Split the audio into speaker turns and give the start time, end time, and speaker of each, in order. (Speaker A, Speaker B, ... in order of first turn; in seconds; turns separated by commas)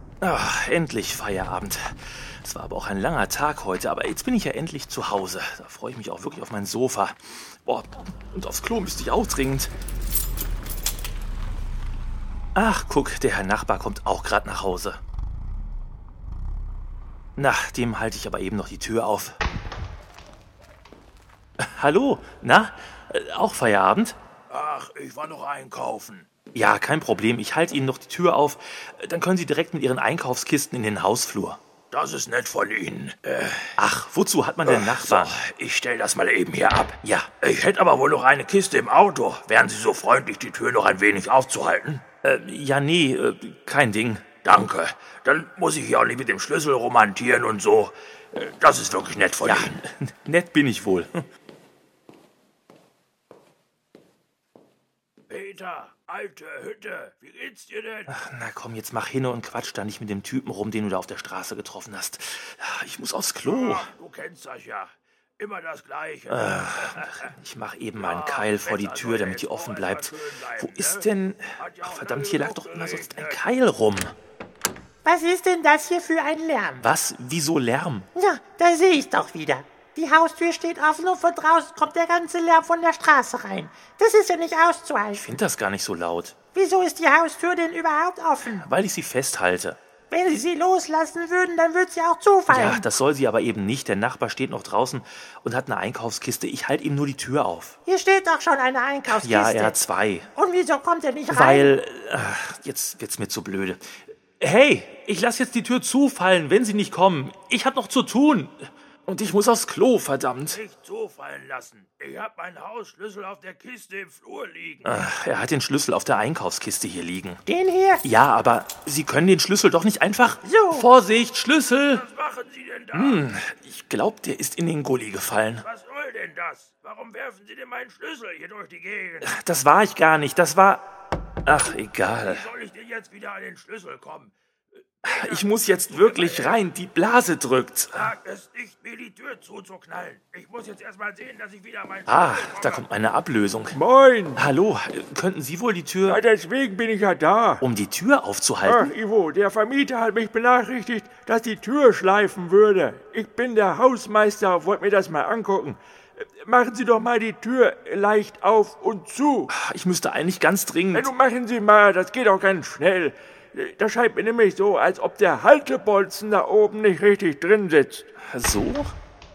Speaker A: 0.2-9.7, Speaker A: 12.6-15.0, Speaker A: 17.4-19.4, Speaker A: 21.6-24.2, Speaker B: 24.5-26.3, Speaker A: 26.5-31.6, Speaker B: 31.9-33.8, Speaker A: 33.8-35.4, Speaker B: 34.6-42.1, Speaker A: 37.0-37.3, Speaker A: 42.2-44.4, Speaker B: 44.4-49.8, Speaker A: 49.4-51.3, Speaker B: 55.3-58.1, Speaker A: 58.1-63.9, Speaker B: 63.4-67.3, Speaker A: 66.3-74.1, Speaker B: 68.0-71.1, Speaker B: 71.6-73.4, Speaker C: 75.0-76.8, Speaker A: 76.8-78.1, Speaker C: 78.1-85.3, Speaker A: 85.1-86.4, Speaker C: 86.5-88.7, Speaker A: 88.4-89.8, Speaker C: 90.1-92.8, Speaker A: 92.5-97.8, Speaker C: 97.8-99.8, Speaker A: 99.1-100.3, Speaker C: 100.3-101.7, Speaker A: 101.3-110.6, Speaker B: 110.5-115.0, Speaker A: 114.8-117.4, Speaker C: 117.5-118.0, Speaker A: 118.0-122.0, Speaker C: 120.4-120.9, Speaker B: 121.9-123.2, Speaker A: 122.9-125.7, Speaker B: 125.6-129.3, Speaker A: 129.2-130.8, Speaker A: 131.5-132.5, Speaker B: 132.2-134.3, Speaker B: 135.0-136.6, Speaker A: 135.0-138.1, Speaker B: 137.9-142.9, Speaker A: 142.1-143.8, Speaker D: 143.7-144.5, Speaker A: 144.4-146.2, Speaker D: 146.1-147.6, Speaker A: 147.6-148.9, Speaker D: 148.7-159.5, Speaker A: 159.5-161.1, Speaker D: 160.9-168.1, Speaker A: 168.2-168.9